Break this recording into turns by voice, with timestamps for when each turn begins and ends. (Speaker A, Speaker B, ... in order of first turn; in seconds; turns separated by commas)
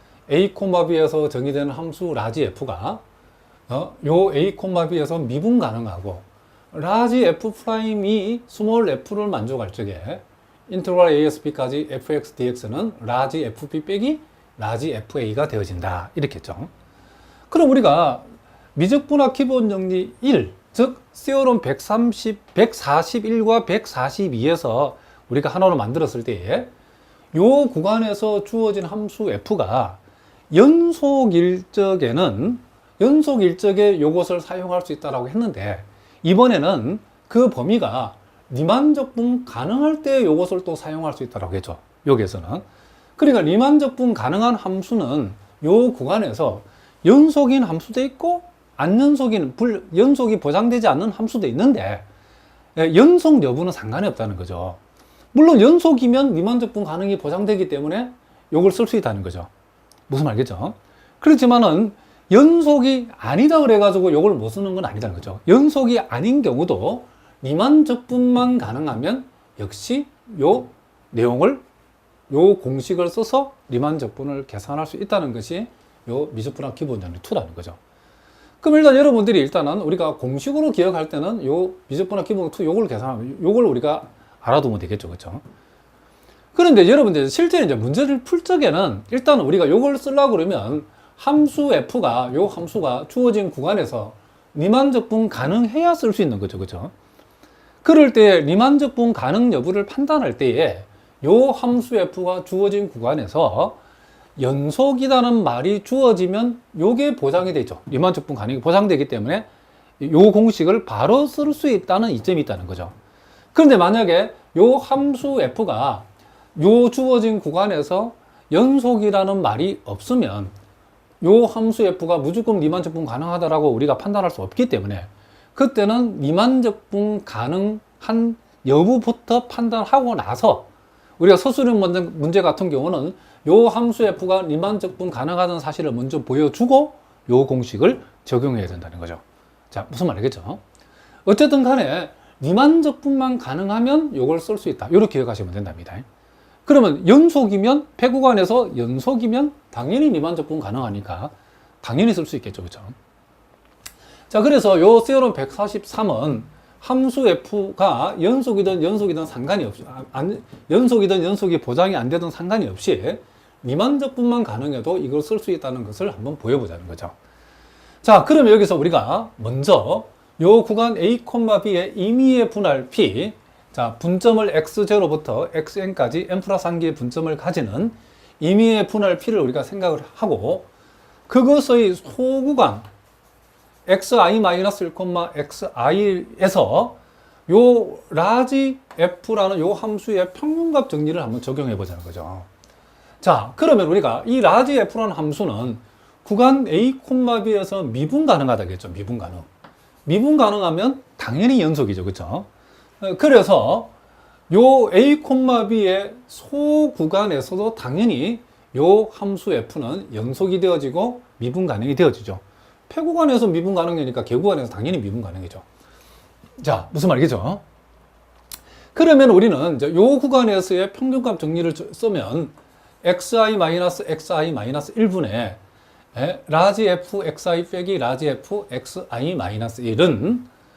Speaker A: 0.3-3.0, Speaker A: 3.7-16.7, Speaker A: 17.5-26.7, Speaker A: 27.3-30.0, Speaker A: 30.5-42.6, Speaker A: 43.2-52.1, Speaker A: 52.8-54.8, Speaker A: 55.3-59.5, Speaker A: 60.1-71.6, Speaker A: 72.3-77.8, Speaker A: 78.6-85.4, Speaker A: 86.5-96.9, Speaker A: 97.8-103.8, Speaker A: 104.4-109.5, Speaker A: 110.0-113.0, Speaker A: 113.5-120.5, Speaker A: 121.2-140.6, Speaker A: 141.3-146.1, Speaker A: 146.7-153.0, Speaker A: 154.3-167.2, Speaker A: 168.0-180.7, Speaker A: 181.3-182.9, Speaker A: 183.9-192.5, Speaker A: 193.2-199.5, Speaker A: 200.1-202.5, Speaker A: 203.0-203.9, Speaker A: 204.5-215.7, Speaker A: 216.6-217.6, Speaker A: 218.9-225.6, Speaker A: 226.1-230.5